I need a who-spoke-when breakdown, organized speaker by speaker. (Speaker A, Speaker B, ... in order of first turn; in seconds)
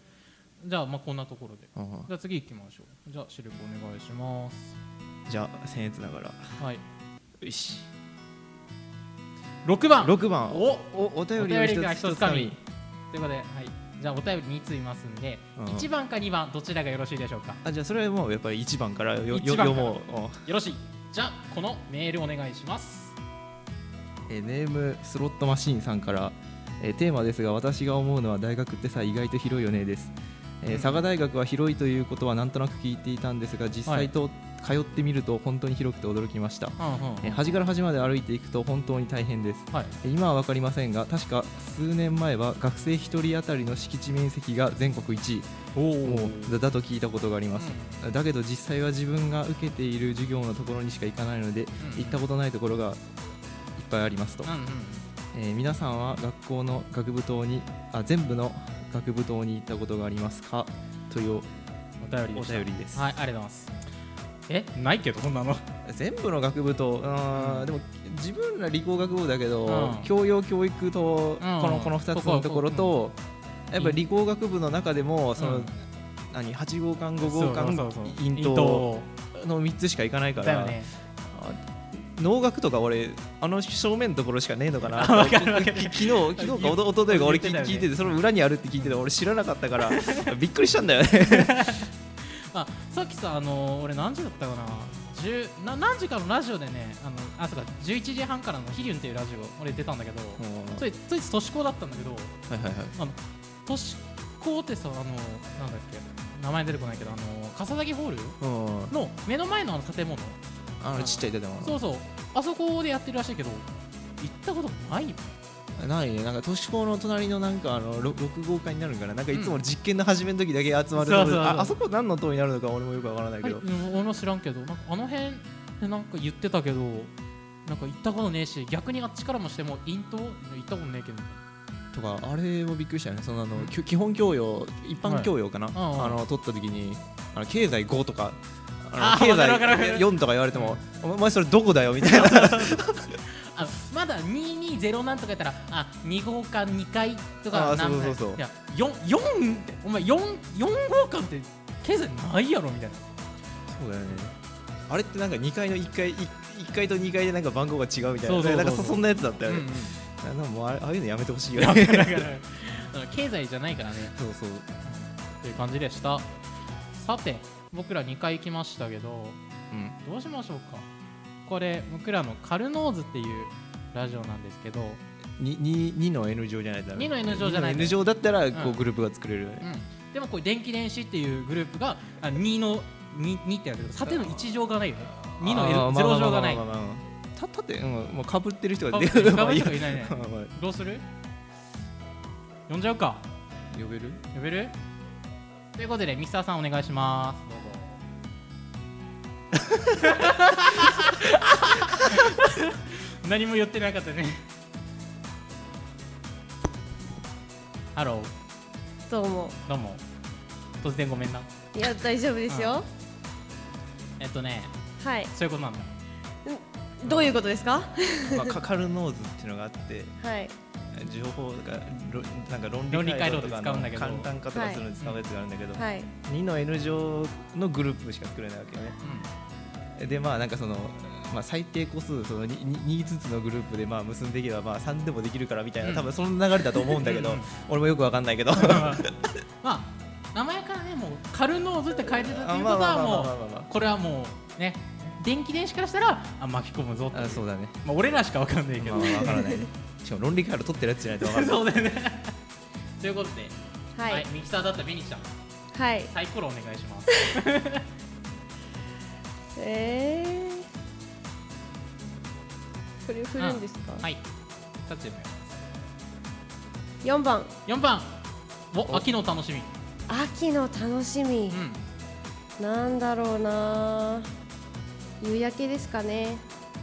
Speaker A: 0.6-4.8, 9.6-12.6, 13.1-17.6, 19.3-23.1, 30.6-31.1, 36.8-37.4, 39.7-40.0, 45.8-46.6, 47.6-48.0, 51.8-52.2, 54.5-55.1, 62.0-63.8, 64.5-65.7, 67.3-67.7, 69.7-70.1, 71.4-73.0, 75.4-75.7, 77.2-79.1, 80.4-80.9, 84.9-88.1, 89.9-90.3, 91.3-102.4, 103.0-108.4, 108.9-110.4, 110.9-113.7, 114.2-115.4, 119.3-119.6, 121.0-121.7, 123.4-127.1, 127.7-131.4, 135.0-136.2, 139.0-140.8, 142.0-153.1, 158.2-159.9, 161.6-164.2, 164.8-166.3, 166.9-169.4, 170.0-170.9, 171.4-175.0, 176.9-178.8, 179.6-186.6, 188.9-191.1, 192.7-193.3, 194.3-194.7, 195.8-197.9, 199.9-204.4, 207.9-208.3, 209.7-210.0, 210.8-211.5, 212.5-212.8, 214.2-214.8, 215.3-215.9, 217.1-217.3, 222.9-224.3, 229.0-229.3, 235.8-236.1, 236.9-237.5, 238.6-249.4, 251.2-252.4, 253.0-253.6, 254.1-255.3, 256.1-257.9, 263.4-264.2, 264.9-265.6, 267.7-268.2, 268.7-269.7, 271.5-271.8
Speaker B: 1.8-2.1, 5.3-6.6, 7.4-7.9, 10.0-12.6, 15.6-15.9, 17.6-20.4, 24.3-45.5, 46.0-53.0, 53.8-54.5, 55.3-61.5, 62.3-63.0, 65.8-73.2, 73.7-91.8, 100.4-100.8, 102.5-103.0, 108.4-108.9, 110.8-111.8, 115.8-123.6, 131.9-143.2, 147.5-148.4, 153.7-154.4, 154.9-162.2, 164.1-164.7, 169.7-170.0, 175.4-179.7, 184.0-184.4, 185.2-190.5, 193.7-194.2, 218.3-220.2, 220.9-229.0, 230.0-239.4, 242.1-243.7, 247.1-247.8, 248.8-251.6
Speaker C: 209.1-209.6, 211.7-212.9, 215.0-215.3, 216.4-218.5, 220.2-220.6, 224.5-224.8, 225.8-226.1, 249.3-249.6, 253.9-254.3, 255.7-256.1, 259.6-260.7, 263.1-264.1, 267.0-267.5, 270.1-271.6, 272.6-274.3, 275.2-276.4